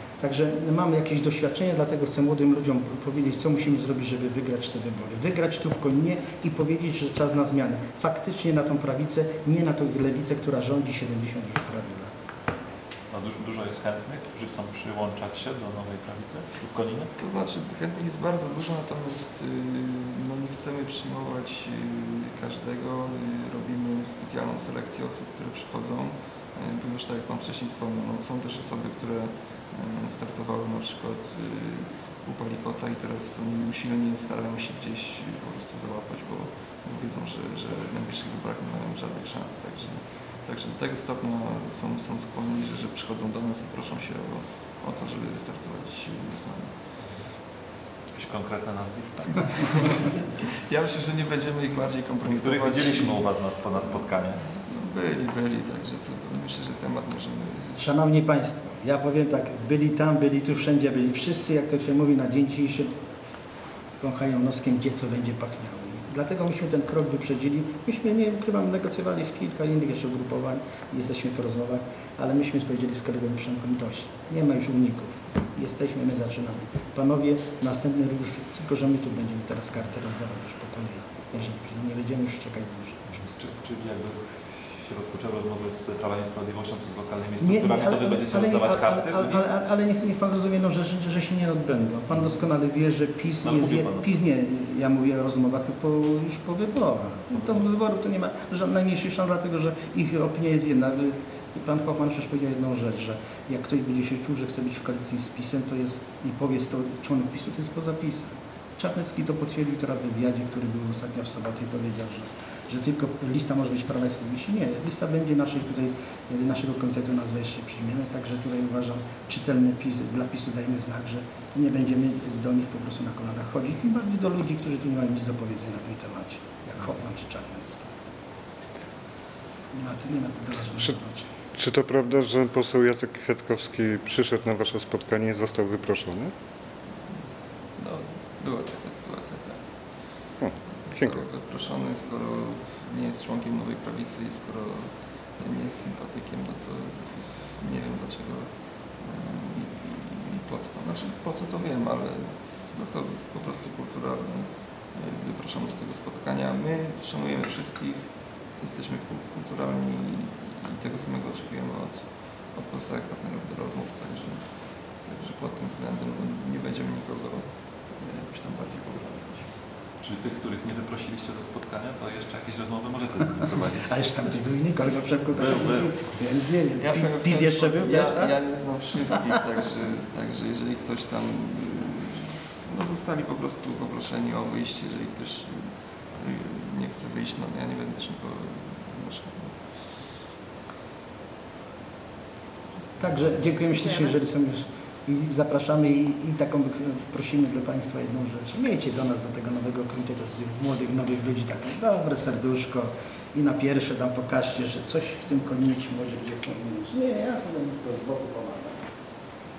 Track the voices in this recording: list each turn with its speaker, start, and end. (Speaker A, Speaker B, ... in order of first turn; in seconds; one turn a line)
Speaker A: 0.2-12.1
Speaker B: 13.1-17.1
Speaker C: 17.2-46.7
Speaker B: 48.1-50.1
Speaker C: 49.8-53.2
Speaker B: 52.2-54.4
Speaker C: 54.4-57.8
Speaker A: 57.8-63.0
Speaker A: 64.0-83.2
Speaker B: 83.2-89.5
Speaker A: 87.4-128.0
Speaker B: 93.4-94.0
Speaker A: 129.7-131.3
Speaker D: 131.5-136.3
Speaker C: 137.8-139.6
Speaker D: 140.4-141.2
Speaker C: 140.7-169.5
Speaker B: 170.0-173.9
Speaker A: 173.8-178.3
Speaker B: 175.4-175.9
Speaker C: 176.8-189.6
Speaker A: 193.0-208.9